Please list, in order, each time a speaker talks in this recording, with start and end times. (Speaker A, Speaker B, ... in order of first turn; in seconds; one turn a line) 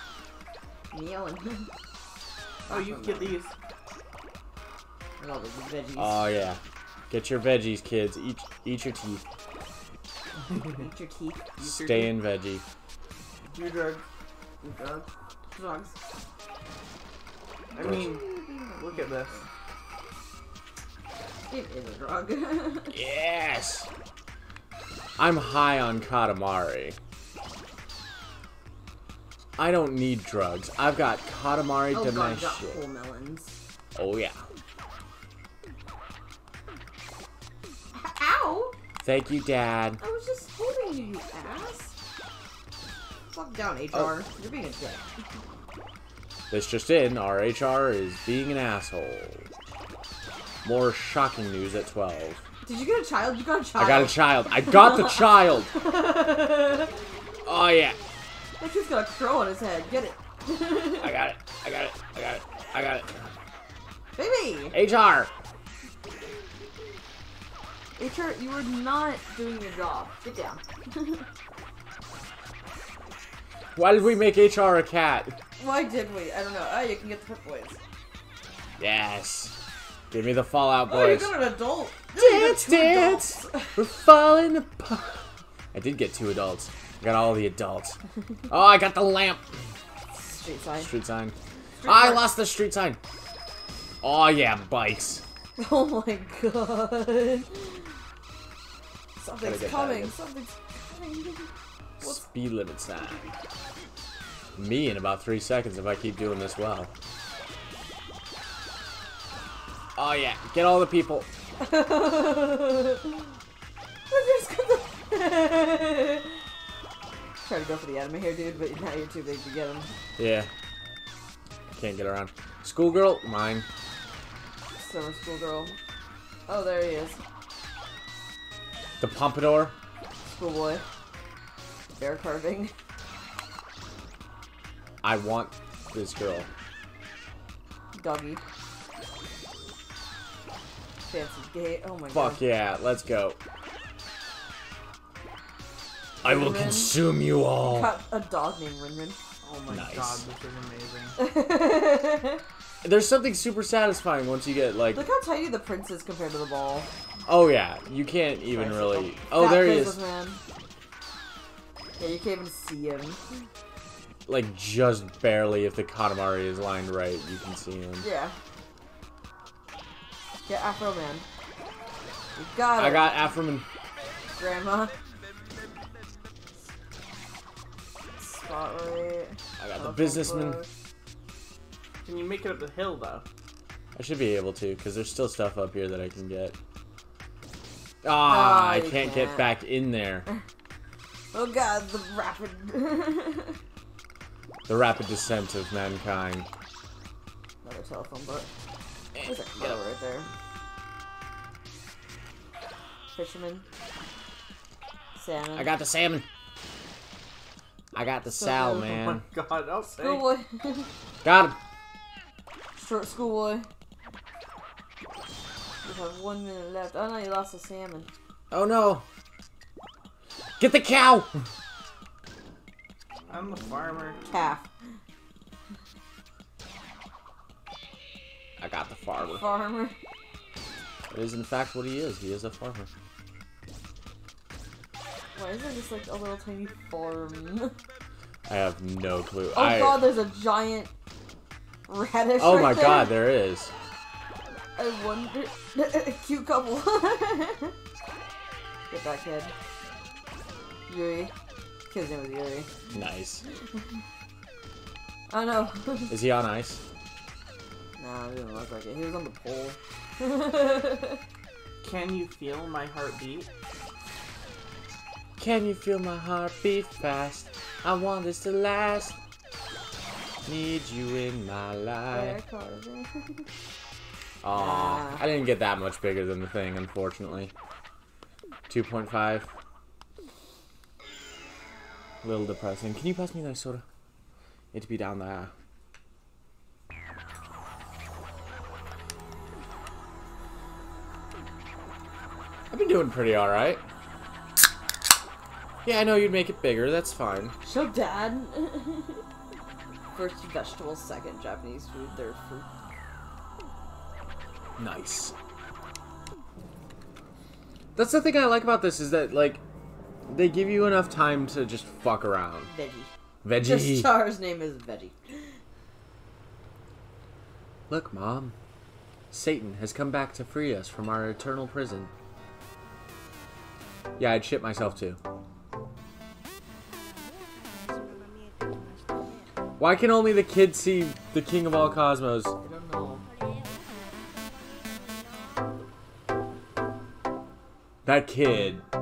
Speaker A: 0.9-1.7
Speaker A: 2.7-3.4
Speaker B: 2.7-3.5
Speaker A: 5.2-6.3
Speaker C: 6.0-6.6
Speaker C: 7.1-9.3
Speaker A: 10.5-11.6
Speaker B: 11.6-12.2
Speaker C: 11.6-12.6
Speaker B: 13.5-14.0
Speaker A: 14.6-16.0
Speaker B: 17.7-19.4
Speaker A: 17.8-19.5
Speaker A: 21.5-23.0
Speaker C: 22.9-23.9
Speaker C: 25.2-27.0
Speaker C: 29.6-32.8
Speaker A: 31.9-33.6
Speaker C: 34.0-34.4
Speaker A: 37.9-38.8
Speaker C: 39.0-40.0
Speaker A: 40.0-42.0
Speaker A: 43.3-45.1
Speaker C: 46.5-49.5
Speaker C: 50.6-52.4
Speaker A: 52.6-57.0
Speaker C: 53.8-55.7
Speaker C: 57.5-58.0
Speaker A: 58.6-61.2
Speaker C: 61.0-63.1
Speaker A: 64.2-64.8
Speaker C: 64.7-65.3
Speaker A: 68.0-71.2
Speaker C: 73.8-75.3
Speaker A: 75.6-77.8
Speaker C: 78.8-79.6
Speaker C: 80.1-81.4
Speaker A: 80.9-83.8
Speaker C: 82.2-89.5
Speaker A: 90.1-90.9
Speaker C: 90.8-93.0
Speaker A: 91.8-92.1
Speaker C: 94.0-95.2
Speaker A: 95.6-97.9
Speaker A: 99.2-102.2
Speaker C: 99.4-100.2
Speaker C: 102.0-103.3
Speaker C: 104.6-106.9
Speaker C: 110.0-111.3
Speaker A: 111.6-113.2
Speaker A: 114.1-116.4
Speaker A: 117.4-119.9
Speaker C: 120.2-120.5
Speaker C: 121.7-123.7
Speaker A: 124.8-125.8
Speaker A: 126.5-127.2
Speaker C: 129.0-129.8
Speaker A: 130.2-130.8
Speaker A: 131.9-132.7
Speaker C: 135.0-136.5
Speaker A: 137.9-138.4
Speaker A: 141.1-142.4
Speaker C: 142.1-143.4
Speaker A: 146.2-147.0
Speaker C: 146.2-147.9
Speaker A: 147.6-149.2
Speaker B: 149.4-151.2
Speaker C: 149.7-150.2
Speaker A: 151.2-152.4
Speaker C: 152.8-155.1
Speaker A: 154.9-156.9
Speaker C: 157.3-160.0
Speaker A: 158.5-160.4
Speaker A: 162.0-163.2
Speaker C: 164.3-168.1
Speaker A: 168.0-168.4
Speaker A: 170.5-171.3
Speaker A: 172.3-173.3
Speaker C: 172.8-173.7
Speaker A: 174.3-174.9
Speaker A: 178.2-180.7
Speaker C: 179.6-180.6
Speaker B: 182.1-183.2
Speaker C: 183.9-186.6
Speaker C: 188.0-190.3
Speaker A: 188.2-189.5
Speaker A: 191.3-193.6
Speaker C: 194.7-196.5
Speaker A: 197.6-198.5
Speaker C: 199.2-199.8
Speaker A: 199.2-200.3
Speaker A: 203.1-203.7
Speaker A: 205.2-205.7
Speaker C: 205.6-206.2
Speaker C: 207.9-209.2
Speaker A: 208.3-208.9
Speaker B: 208.7-210.4
Speaker A: 209.9-210.9
Speaker C: 211.2-211.6
Speaker A: 212.8-213.7
Speaker A: 215.8-218.1
Speaker C: 218.5-219.1
Speaker C: 220.6-221.3
Speaker B: 223.3-224.2
Speaker A: 224.2-224.7
Speaker C: 228.6-229.5
Speaker A: 229.2-230.0
Speaker C: 231.1-232.9
Speaker A: 235.3-237.8
Speaker C: 238.5-240.1
Speaker A: 239.5-240.9
Speaker A: 241.9-243.2
Speaker C: 242.4-243.7
Speaker A: 244.7-247.7
Speaker A: 248.9-249.5
Speaker A: 250.9-251.3
Speaker A: 251.9-252.7
Speaker C: 252.9-253.4
Speaker A: 255.3-256.1
Speaker C: 256.1-256.8
Speaker A: 258.0-261.2
Speaker B: 261.8-263.5
Speaker C: 265.4-269.2
Speaker C: 270.4-272.4
Speaker A: 272.1-273.5
Speaker C: 274.4-277.5
Speaker A: 274.5-275.2
Speaker C: 278.7-279.5
Speaker C: 282.2-283.8
Speaker C: 284.7-285.5
Speaker C: 292.7-293.8
Speaker C: 295.8-297.6
Speaker A: 297.6-299.2
Speaker A: 300.1-302.7
Speaker C: 304.8-305.3
Speaker C: 307.9-309.6
Speaker C: 310.3-312.7
Speaker A: 312.6-315.5
Speaker C: 313.4-314.1
Speaker C: 317.9-318.6
Speaker C: 319.3-322.1
Speaker C: 324.2-325.2
Speaker C: 329.8-332.6
Speaker A: 332.6-333.2
Speaker C: 338.1-338.9